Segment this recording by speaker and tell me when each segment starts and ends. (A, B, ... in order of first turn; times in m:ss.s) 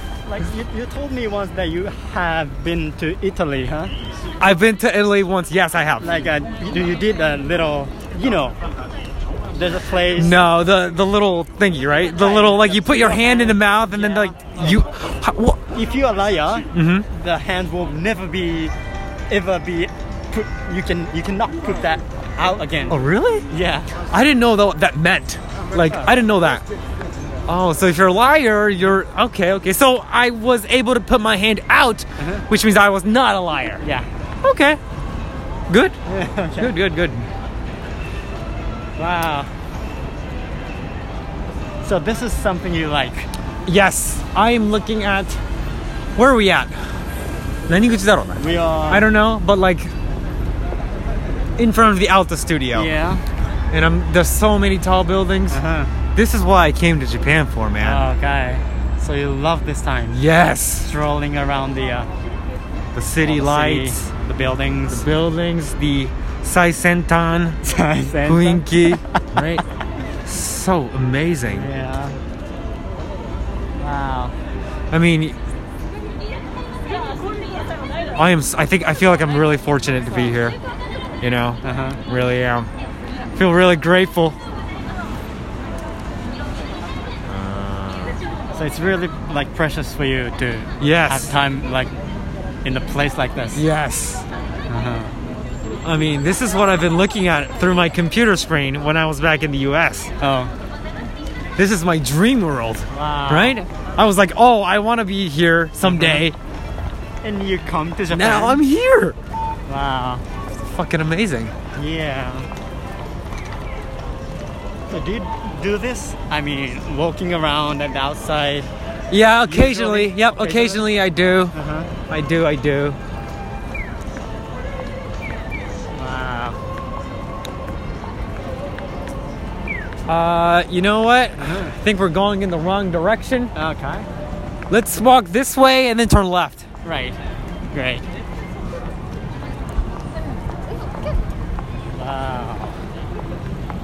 0:00.2-0:03.9 A
0:04.4-0:06.2 B
0:06.0-0:08.6 A
0:09.6-0:10.4 A
0:10.1-0:15.6 B
0:12.1-0:14.9 A
0:15.7-0:18.7 A
0:16.7-0:17.1 B
0:19.3-0:23.9 A
0:22.9-0:23.5 B
0:24.1-0:26.6 B
0:27.5-0:33.8 B
0:32.2-0:32.4 A
0:33.8-0:34.1 A
0:34.4-0:34.8 B
0:35.7-0:36.0 B
0:36.1-0:36.7 A
0:36.6-0:37.3 B
0:39.0-0:39.5 A
0:41.8-0:43.3 A
0:43.6-0:45.4 B
0:46.2-0:46.8 B
0:47.7-0:49.9 B
0:48.4-0:49.1 A
0:51.6-0:52.9 B
0:52.7-0:53.2 A
0:53.7-0:55.6 B
0:55.5-0:55.9 A
0:56.1-0:58.1 B
0:57.8-1:00.2 A
1:00.1-1:00.9 B
1:00.8-1:02.1 A
1:02.9-1:04.1 B
1:03.2-1:05.0 A
1:04.9-1:07.6 B
1:07.6-1:09.2 A
1:08.2-1:09.6 B
1:10.2-1:11.7 B
1:11.4-1:12.2 A
1:13.8-1:14.3 A
1:14.9-1:15.3 B
1:18.2-1:20.6 B
1:21.2-1:22.7 B
1:21.6-1:22.0 A
1:23.3-1:24.4 B
1:27.3-1:28.2 B
1:28.5-1:31.9 A
1:30.8-1:31.3 B
1:32.6-1:33.6 A
1:33.6-1:34.2 B
1:34.7-1:35.1 A
1:35.8-1:40.1 B
1:40.2-1:40.5 A
1:41.6-1:46.4 B
1:42.9-1:43.6 A
1:45.8-1:46.3 A
1:47.2-1:48.6 A
1:48.1-1:49.2 B
1:49.7-1:50.2 A
1:50.5-1:51.6 B
1:51.8-1:52.5 A
1:54.9-1:58.7 A
1:59.1-2:01.5 B
1:59.4-2:01.0 A
2:01.5-2:01.9 A
2:02.1-2:03.0 B
2:06.0-2:06.6 A
2:10.1-2:13.5 B
2:11.4-2:11.8 A
2:13.6-2:14.1 A
2:14.7-2:16.6 B
2:16.8-2:17.2 A
2:17.7-2:18.1 A
2:21.9-2:22.8 A